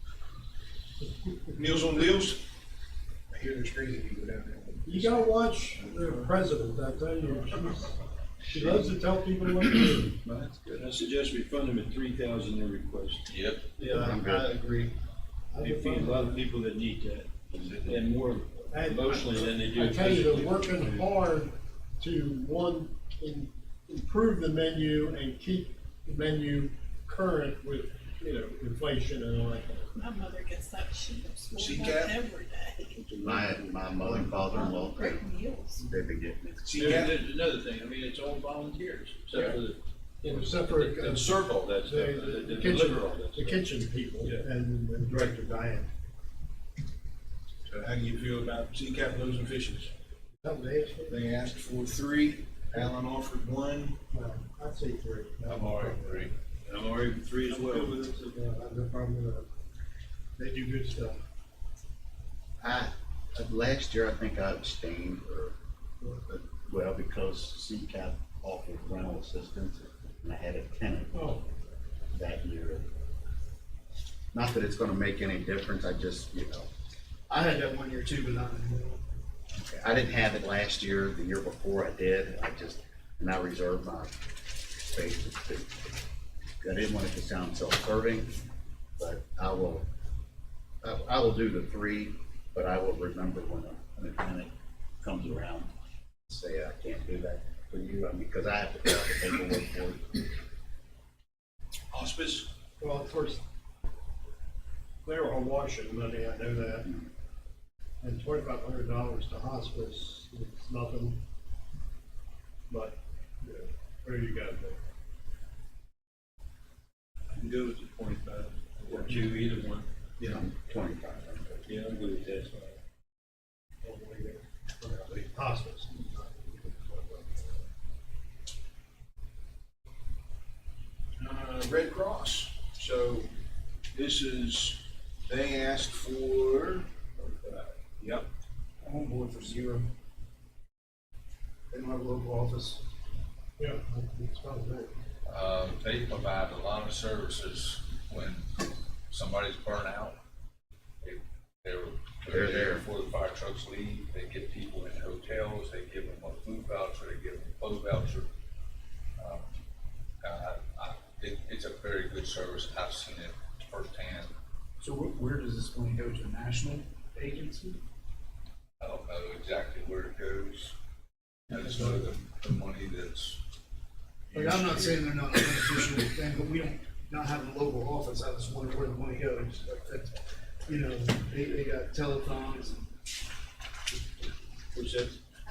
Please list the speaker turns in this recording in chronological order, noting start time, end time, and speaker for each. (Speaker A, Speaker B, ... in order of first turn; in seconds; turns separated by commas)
Speaker A: 1.5-2.4, Speaker A: 3.3-5.3, Speaker B: 4.8-7.9, Speaker B: 8.5-10.2, Speaker C: 10.2-10.8, Speaker D: 10.7-13.3, Speaker C: 13.3-13.6, Speaker B: 13.8-14.9, Speaker E: 13.8-14.6, Speaker B: 15.5-16.4, Speaker D: 15.5-21.1, Speaker C: 17.6-18.1, Speaker B: 18.7-29.9, Speaker F: 29.9-32.9, Speaker A: 31.6-32.1, Speaker D: 32.9-33.6, Speaker E: 33.2-35.2, Speaker B: 34.0-34.3, Speaker F: 34.4-35.8, Speaker E: 35.8-37.0, Speaker A: 36.6-37.4, Speaker D: 36.8-43.7, Speaker A: 38.8-39.3, Speaker B: 40.2-45.9, Speaker A: 40.8-41.7, Speaker A: 47.7-49.9, Speaker B: 50.4-51.2, Speaker A: 51.1-54.0, Speaker B: 54.1-56.3, Speaker C: 55.5-56.3, Speaker D: 56.6-58.0, Speaker B: 57.4-59.5, Speaker B: 60.4-61.2, Speaker E: 62.6-65.5, Speaker E: 66.2-71.2, Speaker B: 71.1-71.4, Speaker E: 72.1-72.9, Speaker E: 74.3-76.7, Speaker G: 77.3-79.0, Speaker E: 79.6-84.2, Speaker E: 84.9-85.9, Speaker E: 86.6-88.4, Speaker E: 89.0-89.9, Speaker E: 90.8-95.7, Speaker E: 96.3-100.2, Speaker A: 101.9-102.5, Speaker B: 102.8-103.4, Speaker B: 105.0-106.9, Speaker B: 108.0-111.2, Speaker B: 112.7-114.8, Speaker D: 117.3-120.4, Speaker E: 120.2-121.7, Speaker D: 121.7-122.8, Speaker B: 123.8-127.6, Speaker A: 131.2-133.3, Speaker A: 133.9-136.9, Speaker G: 138.8-139.8, Speaker G: 141.7-142.8, Speaker B: 143.6-144.9, Speaker C: 145.2-148.5, Speaker C: 149.1-150.2, Speaker C: 151.0-158.3, Speaker E: 152.3-152.8, Speaker C: 159.2-159.5, Speaker C: 160.2-164.3, Speaker G: 164.8-167.8, Speaker C: 168.8-170.7, Speaker C: 171.5-173.4, Speaker G: 171.5-172.0, Speaker C: 174.3-175.4, Speaker G: 174.3-182.8, Speaker D: 184.7-185.2